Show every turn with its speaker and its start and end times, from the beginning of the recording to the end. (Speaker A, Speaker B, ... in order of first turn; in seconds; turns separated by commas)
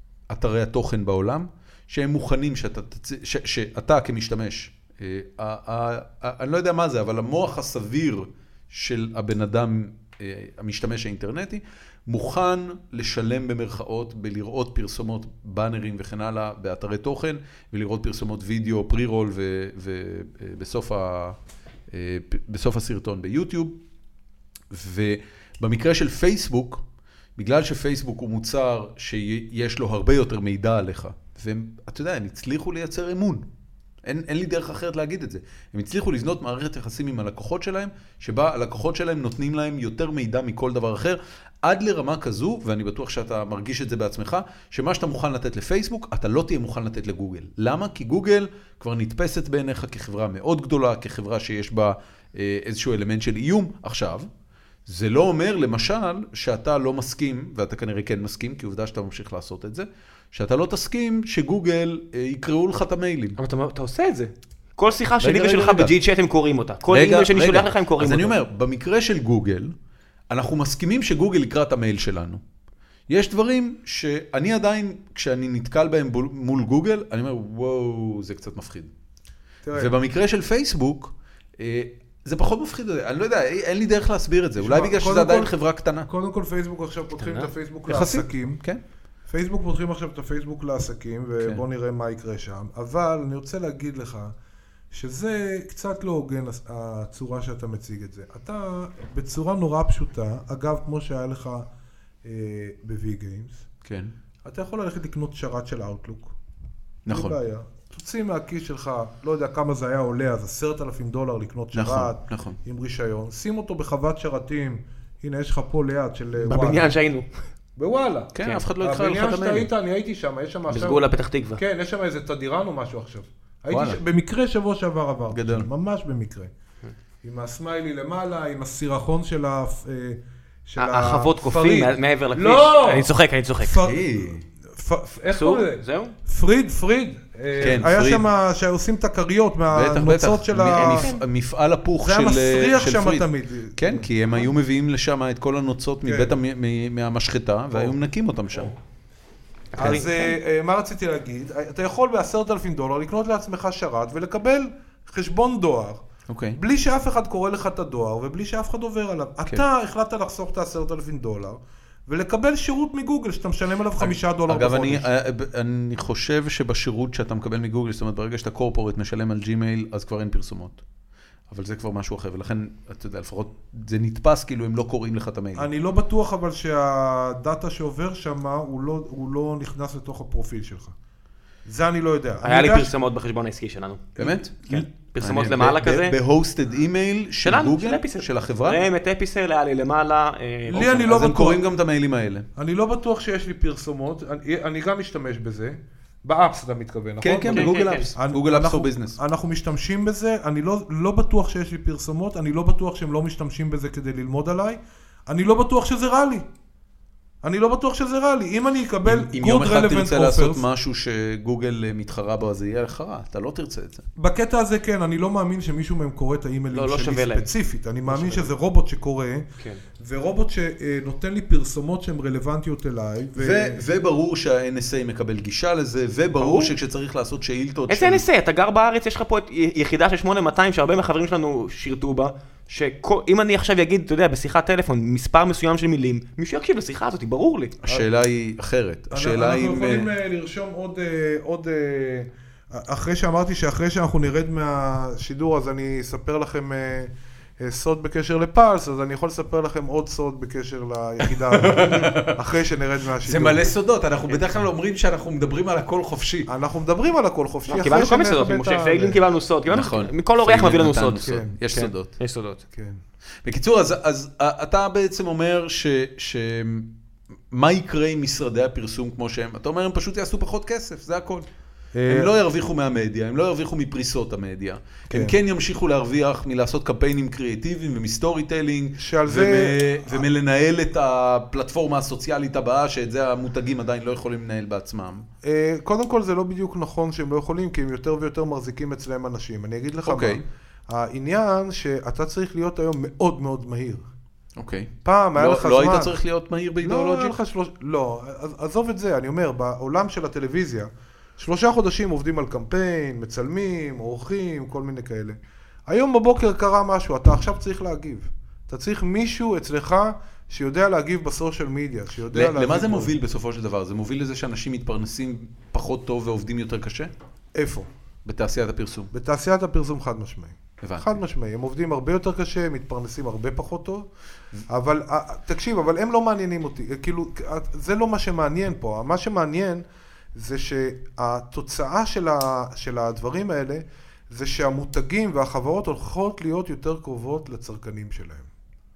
Speaker A: 0.3-21.4, Speaker A: 21.9-23.8, Speaker A: 24.7-26.8, Speaker A: 27.4-33.5, Speaker A: 34.0-54.3, Speaker A: 54.9-63.4, Speaker B: 63.4-68.3, Speaker A: 65.2-65.9, Speaker A: 66.9-69.7, Speaker A: 70.3-72.4, Speaker A: 73.1-78.9, Speaker C: 79.6-79.9, Speaker A: 79.7-86.1, Speaker C: 84.6-85.5, Speaker C: 86.0-88.6, Speaker B: 87.2-87.5, Speaker A: 87.9-88.8, Speaker C: 89.3-94.3, Speaker C: 94.9-101.7, Speaker C: 102.2-103.6, Speaker A: 103.8-104.1, Speaker C: 104.4-106.3, Speaker A: 107.1-107.4, Speaker C: 107.1-116.9, Speaker A: 111.7-112.6, Speaker B: 116.4-117.3, Speaker C: 117.8-121.0, Speaker A: 118.3-119.7, Speaker B: 120.7-121.6, Speaker C: 121.5-126.5, Speaker A: 123.7-124.0, Speaker A: 125.3-125.7, Speaker C: 127.2-133.1, Speaker B: 130.8-133.8, Speaker C: 133.6-141.1, Speaker A: 133.8-134.4, Speaker B: 135.3-136.1, Speaker A: 137.6-138.3, Speaker A: 139.7-148.7, Speaker B: 140.7-141.2, Speaker C: 142.0-144.1, Speaker C: 146.0-146.3, Speaker B: 149.7-150.3, Speaker C: 149.8-156.0, Speaker A: 156.3-156.6, Speaker C: 156.6-165.1, Speaker A: 164.0-170.8, Speaker A: 171.5-175.7, Speaker C: 175.5-180.9, Speaker C: 181.7-182.9, Speaker B: 182.4-186.2, Speaker A: 184.2-188.8, Speaker B: 187.4-191.1, Speaker C: 190.7-191.6, Speaker A: 190.8-192.5, Speaker C: 192.6-206.4, Speaker A: 197.2-199.2, Speaker B: 197.5-198.1, Speaker C: 207.4-210.6, Speaker A: 209.0-214.0, Speaker C: 214.2-219.5, Speaker B: 216.7-217.5, Speaker B: 218.1-218.5, Speaker C: 220.0-223.8, Speaker A: 223.3-228.2, Speaker B: 226.4-226.7, Speaker B: 227.9-237.8, Speaker A: 237.8-240.1, Speaker C: 239.1-253.7, Speaker A: 251.2-252.4, Speaker A: 253.2-256.5, Speaker C: 256.5-259.2, Speaker B: 257.7-262.6, Speaker A: 259.7-262.1, Speaker C: 261.2-261.6, Speaker C: 262.7-263.0, Speaker A: 263.4-266.9, Speaker A: 267.5-271.5, Speaker C: 271.9-272.3, Speaker A: 272.1-285.3, Speaker C: 275.1-275.4, Speaker C: 279.0-280.3, Speaker C: 285.4-294.0, Speaker A: 290.0-290.4, Speaker A: 294.6-297.4, Speaker C: 295.0-296.2, Speaker C: 296.8-313.1, Speaker A: 312.3-317.1, Speaker C: 317.5-317.9, Speaker A: 318.2-319.1, Speaker C: 319.1-324.1, Speaker A: 320.8-321.2, Speaker C: 324.7-329.8, Speaker C: 330.3-338.5